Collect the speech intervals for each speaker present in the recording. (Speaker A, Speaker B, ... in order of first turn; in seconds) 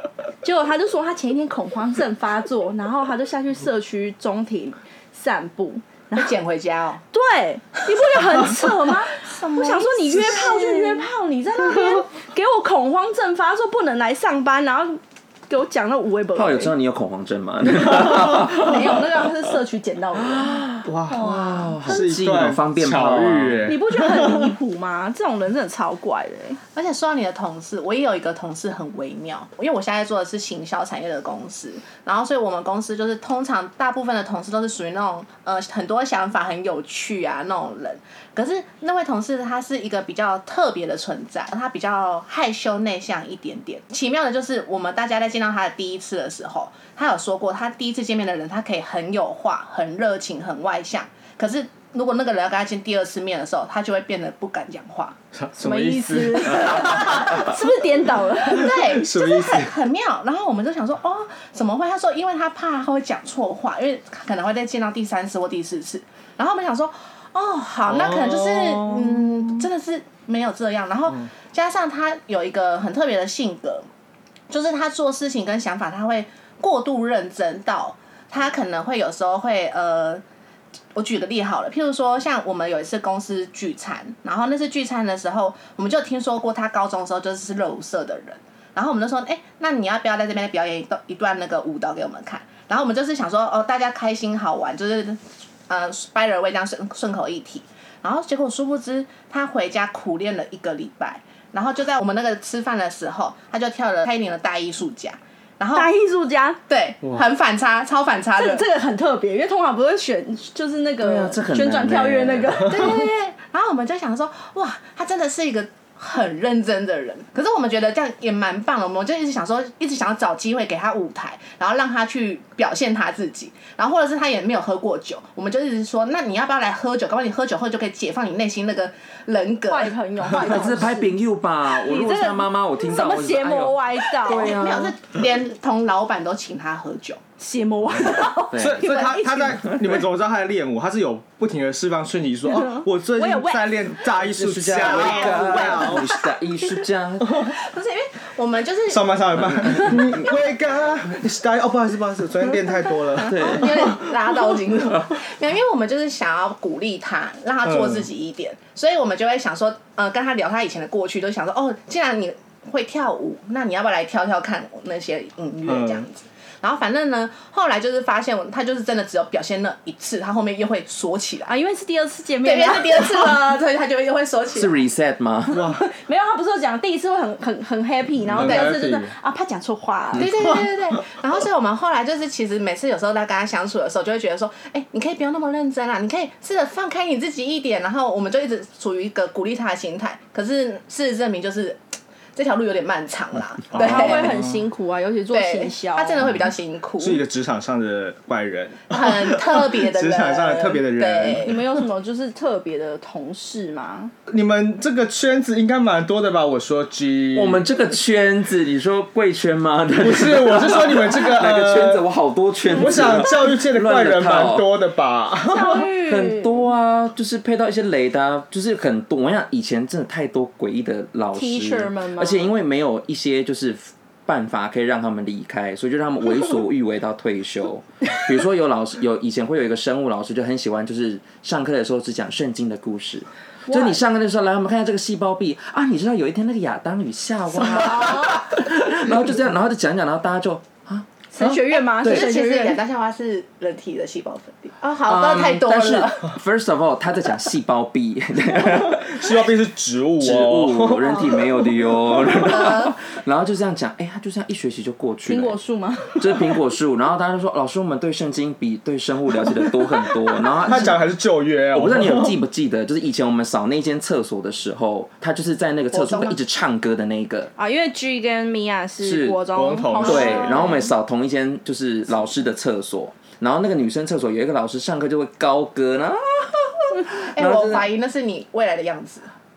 Speaker A: 0.4-6.3, 7.1-16.7, 17.9-20.5, 23.7-26.6, 55.6-58.8, 105.7-106.6, 108.4-113.0, 129.7-131.1, 131.6-134.6, 137.4-140.0, 142.5-143.8, 145.3-146.1, 171.5-173.3, 175.7-180.4, 193.8-196.2, 201.4-204.1, 215.4-216.7, 221.3-222.5, 233.7-234.0, 237.9-238.3, 241.3-242.8, 255.2-256.2, 267.6-270.8
Speaker B: 6.1-7.0, 9.2-11.1, 21.1-21.8, 26.7-55.1, 56.6-57.5, 58.4-73.8, 74.5-80.2, 80.9-105.9, 106.7-108.6, 112.6-129.9, 134.3-137.2, 144.8-146.0, 147.8-149.2, 153.3-171.5, 172.4-174.8, 180.1-191.8, 192.3-194.4, 195.3-197.2, 198.9-201.6, 241.9-246.3, 252.4-252.9, 265.9-266.4, 270.0-270.8, 277.2-279.3
Speaker C: 16.3-19.2, 20.3-23.7, 111.0-112.8, 130.3-134.9, 138.5-138.8, 144.1-147.5, 149.4-150.2, 153.2-154.0, 174.5-175.7, 207.3-214.7, 215.8-242.3, 245.0-249.4, 250.2-255.6, 256.1-261.0, 261.7-267.5, 269.0-269.4, 270.0-277.9
Speaker D: 20.8-24.5, 55.3-57.5, 58.6-59.7, 67.9-69.6, 138.5-146.0, 148.9-153.9, 157.6-158.1, 165.7-166.0, 175.5-175.8, 178.2-179.1, 193.7-194.6, 197.0-201.5, 204.3-207.7, 210.0-212.1, 212.7-215.9, 248.6-251.5, 260.6-262.4, 269.5-270.7